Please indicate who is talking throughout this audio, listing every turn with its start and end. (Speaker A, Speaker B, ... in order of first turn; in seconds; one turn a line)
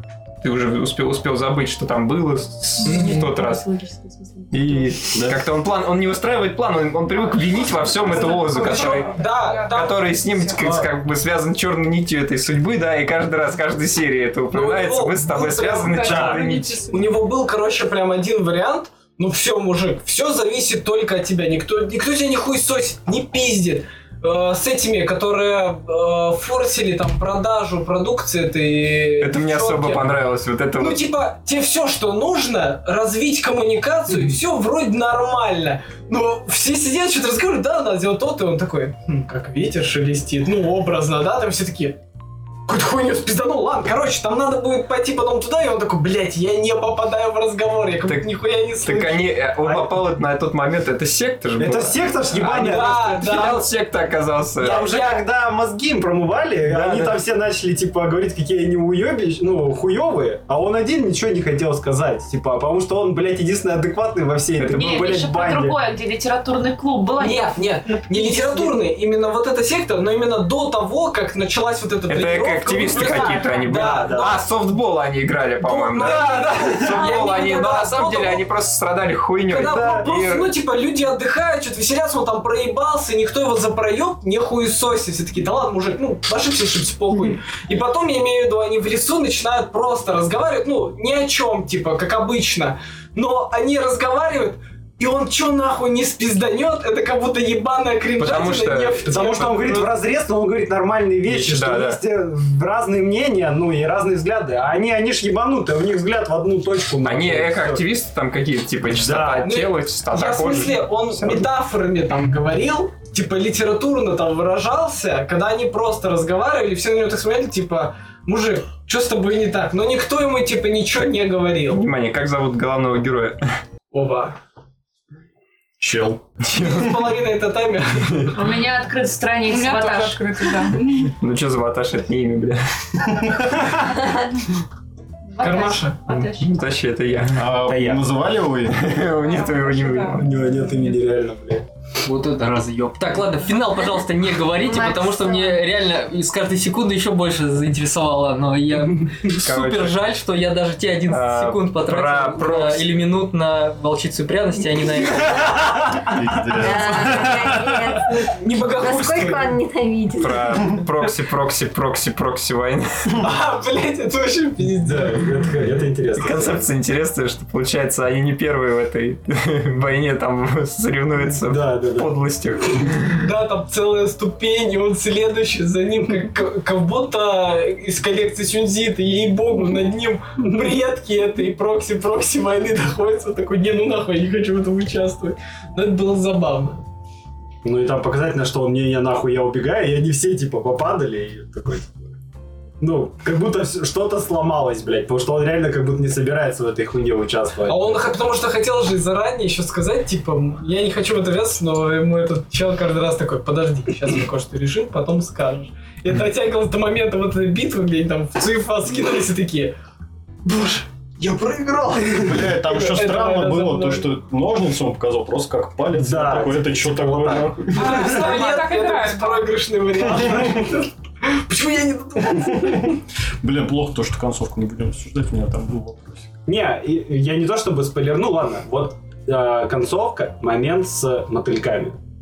Speaker A: 0.4-3.7
Speaker B: 2.8-3.2
Speaker C: 2.9-4.6
Speaker A: 4.5-16.8
Speaker B: 8.1-10.9
Speaker D: 8.4-9.8
Speaker B: 14.5-16.4
Speaker D: 15.8-17.2
Speaker E: 15.9-16.4
Speaker B: 16.9-30.1
Speaker A: 29.2-31.1
Speaker B: 30.8-42.0
Speaker B: 42.7-49.2
Speaker A: 48.1-48.3
Speaker A: 48.8-54.9
Speaker E: 49.6-49.9
Speaker E: 51.6-53.2
Speaker B: 52.4-53.7
Speaker B: 54.6-55.2
Speaker E: 54.6-65.8
Speaker A: 56.7-57.2
Speaker A: 64.6-65.0
Speaker C: 64.7-68.8
Speaker B: 67.2-74.4
Speaker A: 72.1-80.5
Speaker E: 73.7-74.3
Speaker B: 75.6-78.4
Speaker B: 79.5-99.9
Speaker A: 98.2-99.8
Speaker E: 99.1-107.8
Speaker A: 101.3-102.0
Speaker A: 107.0-111.5
Speaker E: 108.9-109.5
Speaker B: 109.4-121.8
Speaker A: 121.7-123.4
Speaker B: 123.9-124.4
Speaker F: 125.8-126.2
Speaker A: 126.4-127.0
Speaker B: 126.5-128.3
Speaker C: 128.3-130.3
Speaker D: 129.5-131.2
Speaker A: 131.1-133.3
Speaker C: 135.3-136.5
Speaker B: 135.4-136.0
Speaker A: 136.1-137.5
Speaker F: 137.4-138.8
Speaker E: 137.7-138.0
Speaker A: 138.7-140.3
Speaker D: 139.2-140.2
Speaker E: 140.2-141.7
Speaker G: 142.0-155.6
Speaker H: 144.6-145.6
Speaker A: 149.4-150.0
Speaker A: 151.1-152.9
Speaker F: 156.0-158.0
Speaker H: 156.5-160.7
Speaker B: 158.2-159.6
Speaker A: 160.2-163.2
Speaker B: 163.2-165.2
Speaker E: 164.8-166.7
Speaker A: 166.2-173.2
Speaker E: 171.4-172.1
Speaker B: 173.2-186.8
Speaker E: 187.6-192.2
Speaker E: 192.8-198.0
Speaker B: 197.7-209.7
Speaker B: 210.4-214.1
Speaker E: 211.3-212.1
Speaker F: 212.2-218.0
Speaker E: 216.0-218.1
Speaker D: 217.7-219.5
Speaker B: 217.8-223.0
Speaker F: 222.5-226.3
Speaker E: 226.5-232.0